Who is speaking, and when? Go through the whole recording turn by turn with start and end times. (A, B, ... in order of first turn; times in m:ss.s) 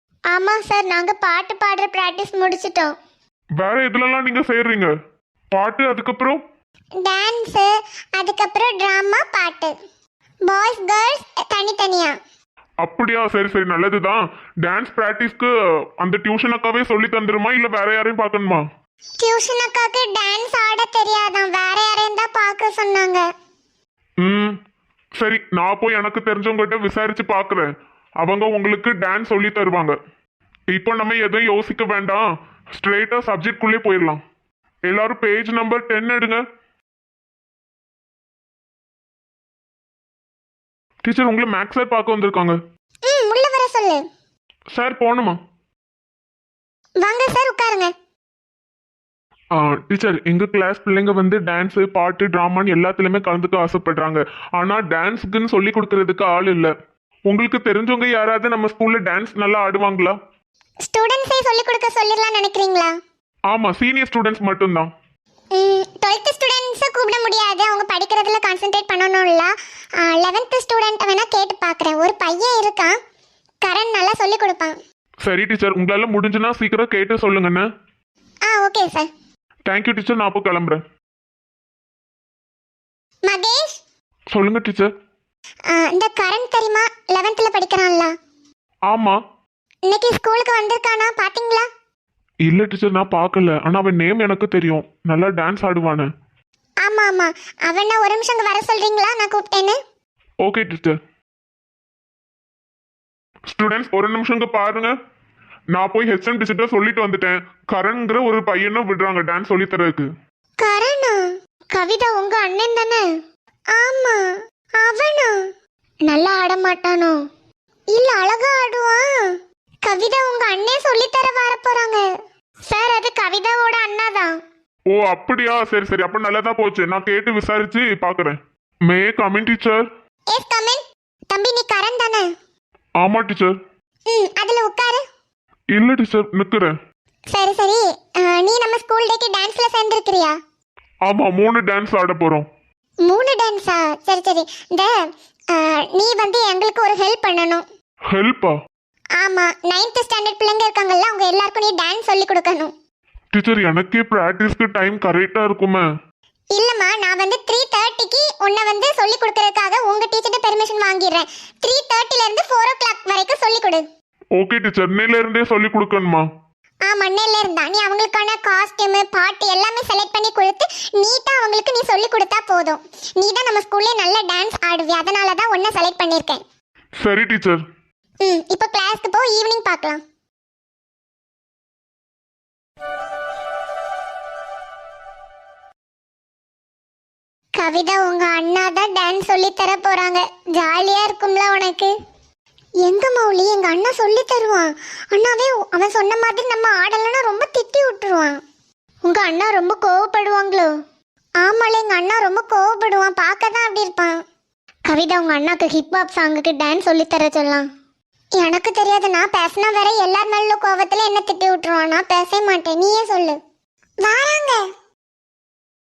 0:00.3-0:02.9 A
0:03.6-0:04.9 B
0:05.5-0:06.4 B
0:07.0-0:09.8 A
0:10.5-0:12.2 A
0:12.8-0:18.6 B
0:19.2-0:23.2 A
0:24.2-0:24.6 B
0:25.2-0:30.0 B
0:30.7-0:34.2 B
0:34.9-0:36.4 B
0:41.0-0:42.6 B
0:43.1-0:44.0 A
0:44.7-0:45.4 B
0:47.0-0:47.9 A
0:49.6-0:56.7 B
0:57.3-1:00.2 B
1:00.8-1:03.0 A
1:03.5-1:04.9 B
1:05.6-1:13.0 A
1:13.6-1:14.8 A
1:15.2-1:17.6 B
1:18.5-1:19.1 A
1:19.7-1:20.8 B
1:23.3-1:23.8 A
1:24.3-1:24.9 B
1:25.7-1:28.1 A
1:28.9-1:29.2 B
1:29.9-1:31.7 A
1:32.4-1:36.1 B
1:36.8-1:39.8 A
1:40.4-1:41.0 B
1:43.5-1:44.9 B
1:45.7-1:50.1 B
1:50.6-1:53.1 A
1:53.7-1:55.5 A
1:56.1-1:57.2 A
1:57.9-2:02.1 A
2:02.7-2:04.4 A
2:04.9-2:09.9 B
2:10.3-2:12.3 A
2:13.0-2:13.6 B
2:14.1-2:15.0 A
2:15.7-2:16.7 B
2:17.3-2:20.4 A
2:21.1-2:22.5 B
2:23.1-2:24.9 A
2:25.5-2:27.6 A
2:28.1-2:28.6 B
2:29.2-2:32.7 A
2:33.3-2:35.9 B
2:36.5-2:43.9 A
2:44.4-2:46.2 B
2:46.9-2:56.4 A
2:57.0-2:57.6 B
2:58.2-3:00.0 A
3:07.6-3:11.9 A
3:12.8-3:18.4 A
3:19.1-3:20.7 A
3:21.4-3:24.2 A
3:24.9-3:27.7 A
3:28.4-3:33.4 A
3:34.0-3:34.7 A